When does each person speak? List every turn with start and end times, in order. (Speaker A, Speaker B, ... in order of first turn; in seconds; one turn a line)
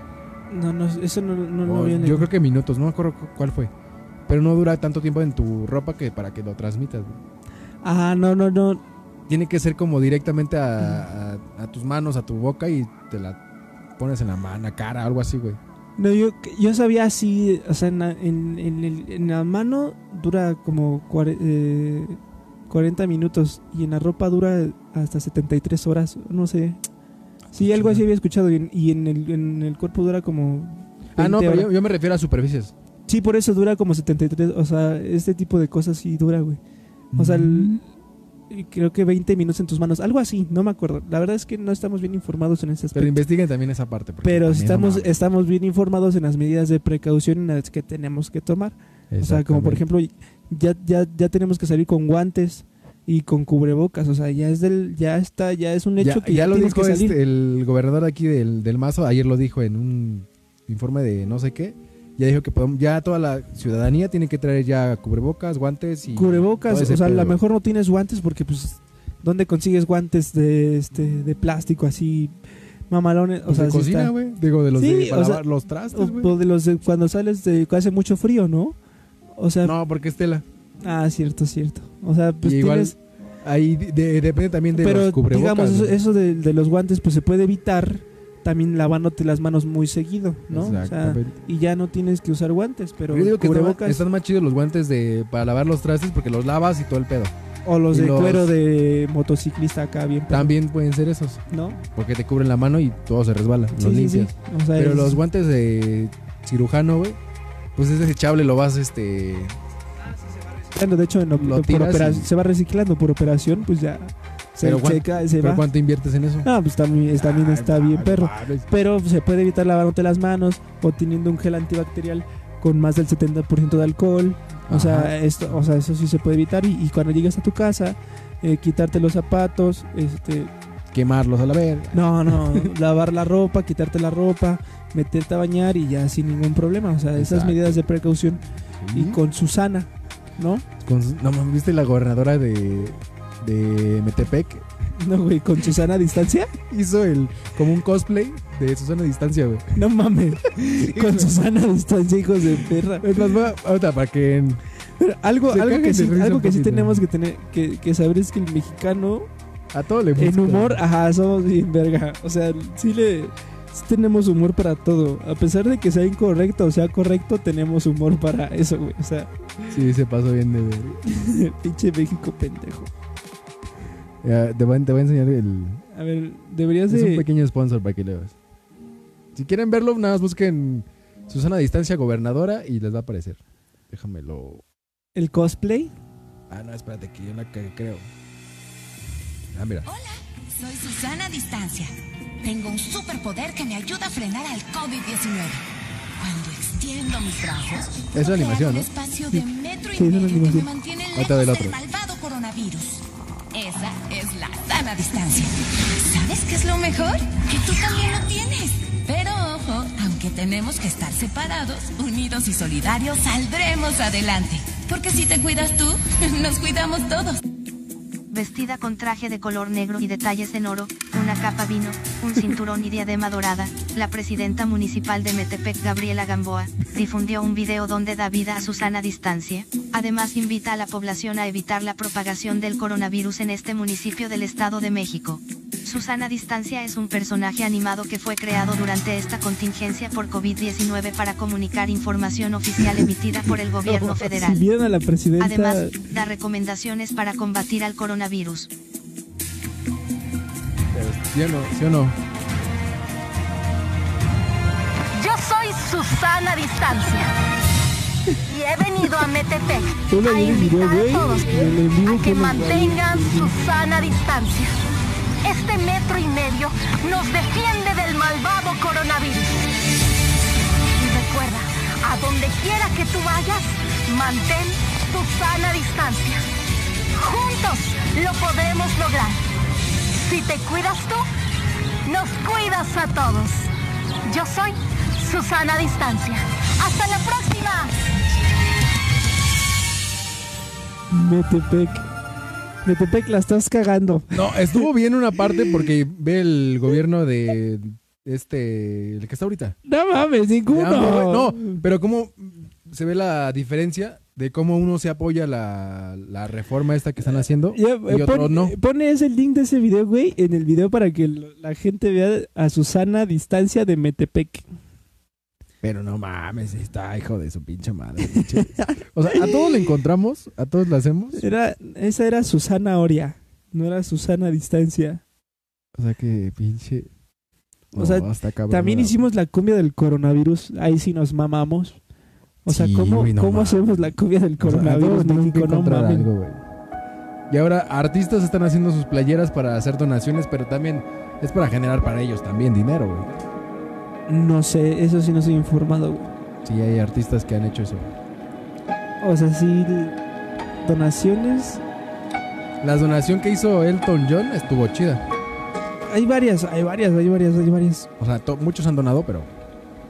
Speaker A: 0.5-2.3
Speaker B: 1.6-3.7
Speaker B: 4.3-7.2
Speaker A: 7.8-8.8
Speaker B: 9.3-13.4
Speaker B: 14.0-15.6
Speaker A: 16.0-26.8
Speaker B: 27.5-28.0
Speaker A: 27.5-31.7
Speaker B: 31.1-32.7
Speaker A: 33.1-36.6
Speaker B: 37.1-37.8
Speaker A: 37.1-37.8
Speaker A: 38.5-43.2
Speaker B: 42.9-45.1
Speaker A: 44.2-57.2
Speaker B: 49.1-49.8
Speaker B: 56.0-67.4
Speaker A: 66.1-72.3
Speaker A: 72.9-74.1
Speaker B: 73.5-76.3
Speaker A: 74.7-78.8
Speaker A: 79.3-79.7
Speaker B: 79.6-80.4
Speaker A: 80.8-83.0
Speaker B: 82.4-86.0
Speaker A: 84.7-94.0
Speaker B: 90.5-91.3
Speaker B: 93.1-97.3
Speaker A: 97.6-100.5
Speaker B: 97.9-98.5
Speaker B: 100.3-101.4
Speaker A: 101.5-101.8
Speaker B: 101.9-107.2
Speaker A: 103.7-105.2
Speaker B: 107.8-109.6
Speaker A: 110.1-115.6
Speaker B: 111.3-112.3
Speaker B: 114.6-116.5
Speaker A: 116.4-130.5
Speaker B: 117.1-118.7
Speaker B: 124.7-125.1
Speaker B: 130.9-132.7
Speaker A: 131.9-140.6
Speaker B: 137.2-137.8
Speaker B: 138.8-139.2
Speaker B: 140.8-144.7
Speaker A: 145.0-146.5
Speaker B: 146.7-149.7
Speaker A: 149.7-153.2
Speaker B: 150.6-151.3
Speaker B: 153.0-154.6
Speaker A: 155.0-159.3
Speaker B: 155.5-157.0
Speaker B: 159.7-160.8
Speaker A: 160.2-169.3
Speaker B: 169.7-171.0
Speaker A: 171.1-172.9
Speaker B: 174.2-175.8
Speaker A: 175.9-177.2
Speaker B: 176.9-178.3
Speaker B: 179.3-184.6
Speaker A: 185.2-185.9
Speaker B: 186.5-188.1
Speaker B: 189.5-189.9
Speaker C: 189.8-195.6
Speaker C: 196.2-217.4
Speaker B: 198.1-198.9
Speaker A: 199.9-200.7
Speaker B: 201.1-201.8
Speaker D: 218.3-244.6
Speaker A: 243.8-245.9
Speaker D: 245.4-248.7
Speaker B: 250.9-252.2
Speaker E: 255.1-257.3
Speaker E: 258.5-264.7
Speaker A: 260.1-263.5
Speaker E: 265.4-269.5
Speaker E: 271.0-276.4
Speaker E: 277.1-279.4
Speaker E: 280.2-281.2
Speaker E: 282.1-283.7
Speaker E: 284.2-287.9
Speaker A: 291.1-292.0
Speaker A: 292.8-294.9
Speaker B: 294.3-299.7
Speaker A: 299.9-301.8
Speaker B: 300.7-308.7
Speaker A: 307.7-314.6
Speaker B: 315.8-321.4
Speaker A: 318.5-319.7
Speaker A: 321.3-325.2
Speaker B: 325.9-327.1
Speaker B: 327.9-329.2
Speaker A: 327.9-332.0
Speaker A: 332.6-336.3
Speaker B: 332.6-336.6
Speaker B: 337.5-343.4
Speaker A: 344.3-346.3
Speaker B: 346.6-348.1
Speaker A: 349.2-350.2
Speaker A: 350.8-351.8
Speaker B: 352.8-355.2
Speaker A: 356.1-358.1
Speaker B: 358.2-359.5